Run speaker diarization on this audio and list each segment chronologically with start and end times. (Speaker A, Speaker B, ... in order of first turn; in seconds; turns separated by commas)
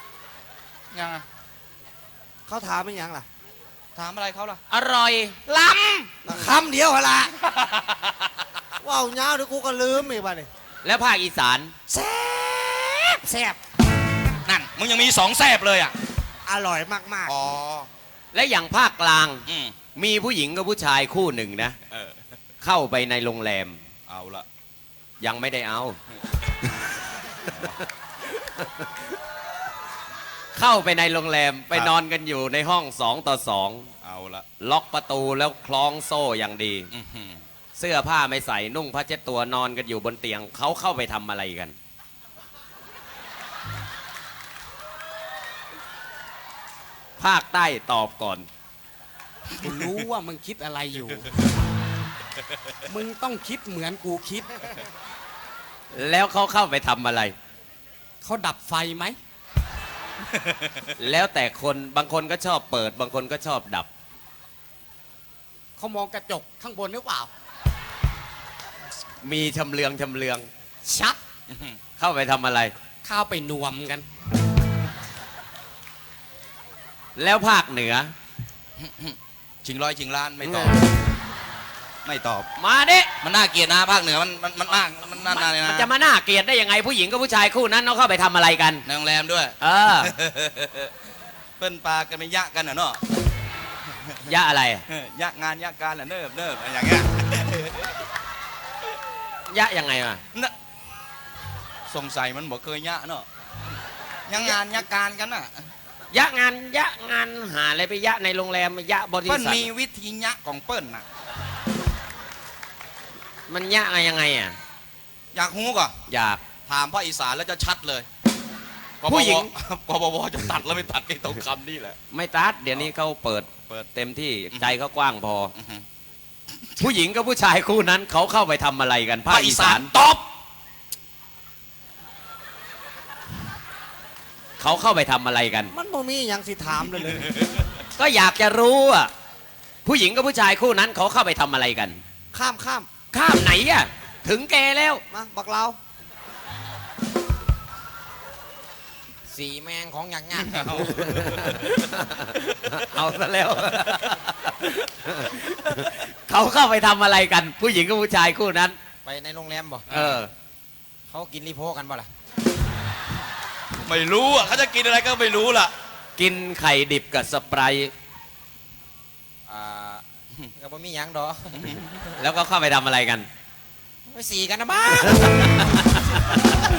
Speaker A: 0.9-1.2, Speaker B: 2.5-3.2, Speaker A: 4.0-4.6, Speaker C: 4.7-5.4, Speaker A: 5.5-6.3, Speaker B: 5.5-7.3, Speaker A: 7.4-8.3, Speaker B: 8.8-10.5, Speaker C: 10.8-11.7, Speaker B: 11.9-13.6, Speaker A: 14.4-15.9, Speaker B: 16.4-17.3, Speaker A: 17.2-17.9, Speaker C: 18.3-19.4, Speaker A: 19.5-19.7, Speaker C: 19.9-21.8, Speaker A: 21.9-22.2, Speaker C: 22.6-23.8, Speaker A: 24.1-24.4, Speaker C: 25.2-26.0, Speaker C: 28.4-29.0, Speaker C: 30.5-33.9, Speaker A: 34.0-34.5, Speaker C: 34.6-36.9, Speaker A: 36.9-37.4, Speaker C: 37.8-41.8, Speaker C: 47.2-48.5, Speaker D: 49.6-51.3, Speaker D: 52.9-54.7, Speaker C: 55.9-57.3, Speaker D: 58.2-59.2, Speaker A: 60.3-60.6, Speaker C: 61.0-63.9, Speaker D: 65.8-67.3, Speaker C: 69.2-70.5, Speaker D: 70.8-71.2, Speaker A: 71.5-71.8, Speaker C: 72.0-72.7, Speaker D: 73.0-74.0, Speaker C: 77.2-78.1, Speaker A: 78.8-80.8, Speaker C: 80.4-80.7, Speaker A: 82.0-82.5, Speaker C: 82.6-83.1, Speaker A: 83.2-85.9, Speaker C: 85.3-88.8, Speaker A: 88.8-90.9, Speaker C: 89.6-90.1, Speaker A: 91.6-93.0, Speaker C: 94.2-94.8, Speaker A: 94.9-97.9, Speaker C: 99.5-100.2, Speaker A: 101.9-103.2, Speaker A: 104.3-105.6, Speaker C: 106.1-109.7, Speaker A: 109.3-111.0, Speaker C: 113.5-114.6, Speaker A: 115.3-116.0, Speaker C: 116.1-116.4, Speaker A: 116.7-118.1, Speaker A: 119.0-122.0, Speaker C: 119.1-119.5, Speaker C: 122.1-125.5, Speaker A: 125.5-125.8, Speaker C: 126.8-129.9, Speaker A: 129.3-130.2, Speaker C: 134.6-135.7, Speaker B: 135.7-137.3, Speaker C: 138.0-139.1, Speaker C: 139.8-142.0, Speaker B: 142.3-142.9, Speaker C: 143.1-145.0, Speaker B: 145.1-145.8, Speaker E: 149.3-150.9, Speaker A: 150.5-151.6, Speaker C: 150.9-158.8, Speaker E: 159.0-159.8, Speaker C: 159.9-160.3, Speaker A: 159.9-160.2, Speaker E: 161.1-162.1, Speaker A: 163.8-165.7, Speaker C: 166.2-167.9, Speaker E: 169.5-170.0, Speaker E: 170.6-171.7, Speaker A: 171.5-172.0, Speaker C: 172.2-173.3, Speaker E: 174.1-175.6, Speaker C: 175.1-176.6